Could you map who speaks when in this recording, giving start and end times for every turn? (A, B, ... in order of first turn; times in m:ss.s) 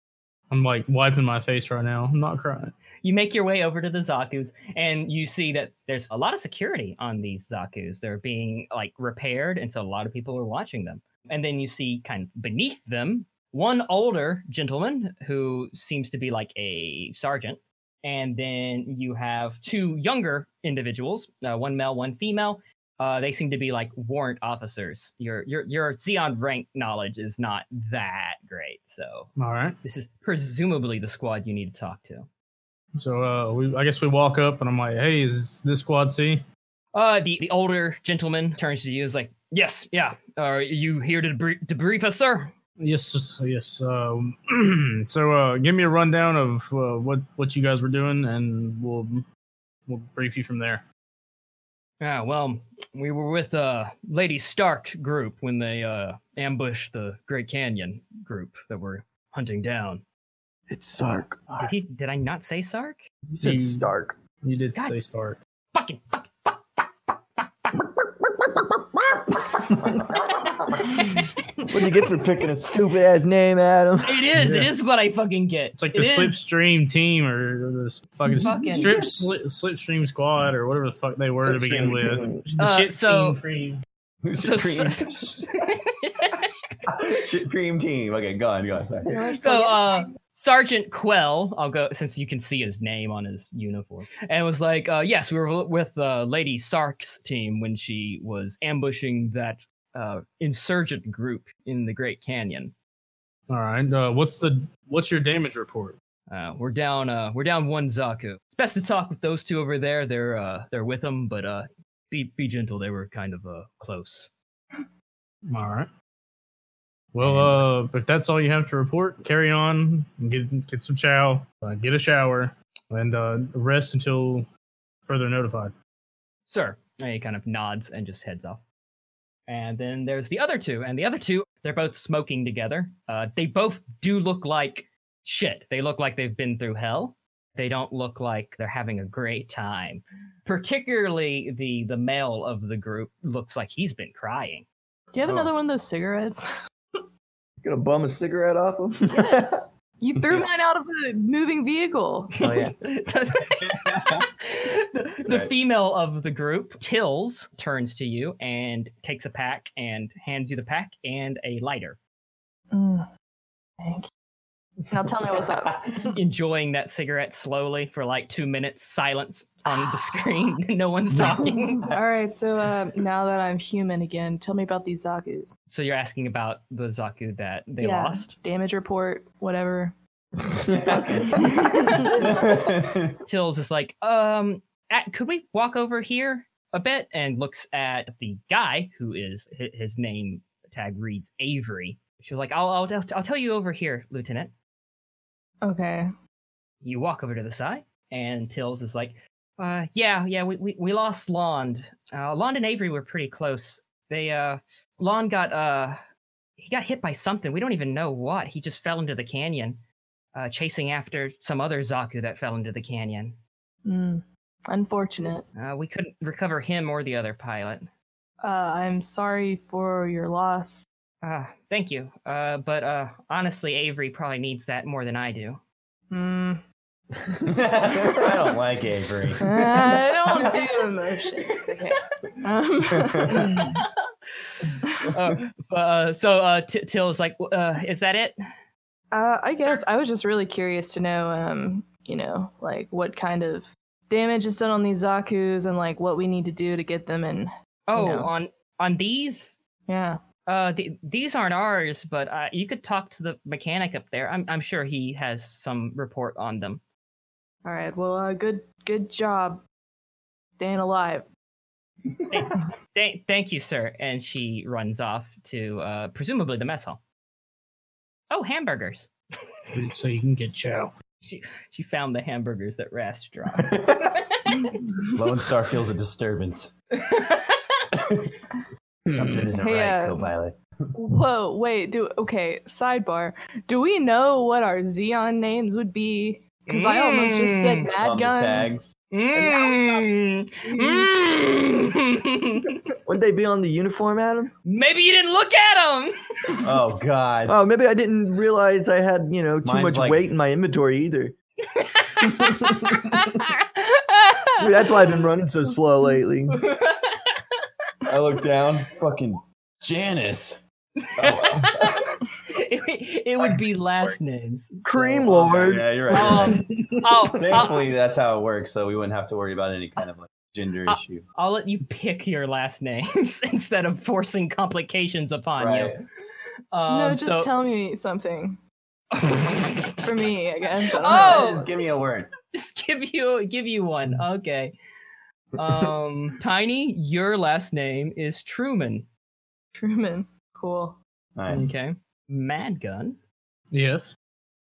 0:00.5-0:02.7 A
0:03.0-0:29.3 B
0:29.4-0:29.8 A
0:29.8-0:32.3 B
0:33.0-0:36.4 A
0:36.9-0:42.5 B
0:42.8-0:49.2 A
0:49.9-0:50.8 A
0:52.0-1:00.0 B
1:00.7-1:01.7 C
1:01.6-1:03.1 B
1:03.4-1:04.2 C
1:03.4-1:03.9 A
1:04.4-1:05.4 A
1:05.7-1:07.8 B
1:10.3-1:11.4 B
1:11.7-1:14.2 C
1:14.0-1:16.4 B
1:14.3-1:14.8 A
1:15.8-1:23.8 A
1:18.3-1:19.0 C
1:18.4-1:19.0 B
1:21.5-1:22.4 C
1:22.6-1:23.4 B
1:24.2-1:25.6 D
1:24.4-1:26.5 B
1:26.9-1:29.1 D
1:29.1-1:30.2 E
1:29.4-1:42.8 B
1:43.5-1:46.0 A
1:46.3-1:54.3 B
1:55.5-1:55.9 A
1:57.1-2:04.5 A
2:05.0-2:05.7 A
2:06.5-2:08.6 B
2:09.5-2:24.7 B
2:25.1-2:26.5 E
2:25.2-2:25.5 D
2:27.6-2:29.6 C
2:29.1-2:32.3 E
2:32.4-2:32.7 C
2:32.5-2:42.0 B
2:33.8-2:34.1 D
2:35.2-2:35.5 D
2:42.7-2:43.1 E
2:43.8-2:44.1 E
2:44.9-2:46.1 E
2:46.1-2:51.9 B
2:49.7-2:50.3 E
2:51.9-2:55.6 E
2:55.7-2:58.4 B
2:57.8-3:00.0 E
3:00.7-3:01.4 D
3:00.7-3:01.5 C
3:01.6-3:02.3 E
3:02.1-3:03.2 D
3:03.2-3:14.5 B
3:15.6-3:16.1 E
3:16.8-3:26.0 B
3:26.6-3:29.8 B
3:30.4-3:33.4 B
3:33.8-3:35.4 E
3:35.6-3:37.9 B
3:38.4-3:40.9 E
3:41.2-3:45.6 B
3:46.1-3:46.6 E
3:47.5-3:50.6 D
3:49.4-3:53.8 E
3:53.0-3:53.6 D
3:53.3-3:53.9 B
3:54.6-3:58.4 B
3:59.1-4:08.3 E
3:59.6-3:59.8 B
4:07.9-4:09.6 B
4:09.9-4:10.2 E
4:10.5-4:16.8 B
4:17.6-4:19.6 E
4:20.6-4:21.3 E
4:22.3-4:27.0 B
4:28.3-4:29.1 B
4:29.7-4:30.9 A
4:31.2-4:34.7 B
4:35.1-4:36.7 D
4:37.0-4:37.9 B
4:37.9-4:38.3 D
4:39.1-4:39.5 C
4:39.1-4:40.9 D
4:39.6-4:40.3 E
4:41.0-4:48.7 E
4:46.7-4:47.9 B
4:48.0-4:48.9 D
4:49.1-4:52.8 B
4:50.7-4:51.1 E
4:53.1-4:54.5 C
4:54.7-4:56.6 B
4:56.6-4:57.6 D
4:57.5-5:01.3 C
4:59.6-5:00.3 D
5:01.8-5:04.9 B
5:04.6-5:06.5 C
5:06.5-5:07.6 B
5:08.1-5:10.6 D
5:11.2-5:12.2 D
5:11.2-5:17.8 B
5:14.8-5:16.4 C
5:15.4-5:16.7 D
5:17.3-5:21.2 D
5:20.9-5:26.0 B
5:25.6-5:26.0 D
5:26.7-5:27.5 B
5:26.9-5:28.6 E
5:29.2-5:30.0 B
5:30.0-5:31.5 E
5:31.0-5:31.7 B
5:31.1-5:32.3 D
5:32.5-5:34.8 B
5:35.6-5:39.1 B
5:39.7-5:41.0 E
5:41.4-5:41.7 D
5:41.5-5:43.2 B
5:43.7-5:44.2 A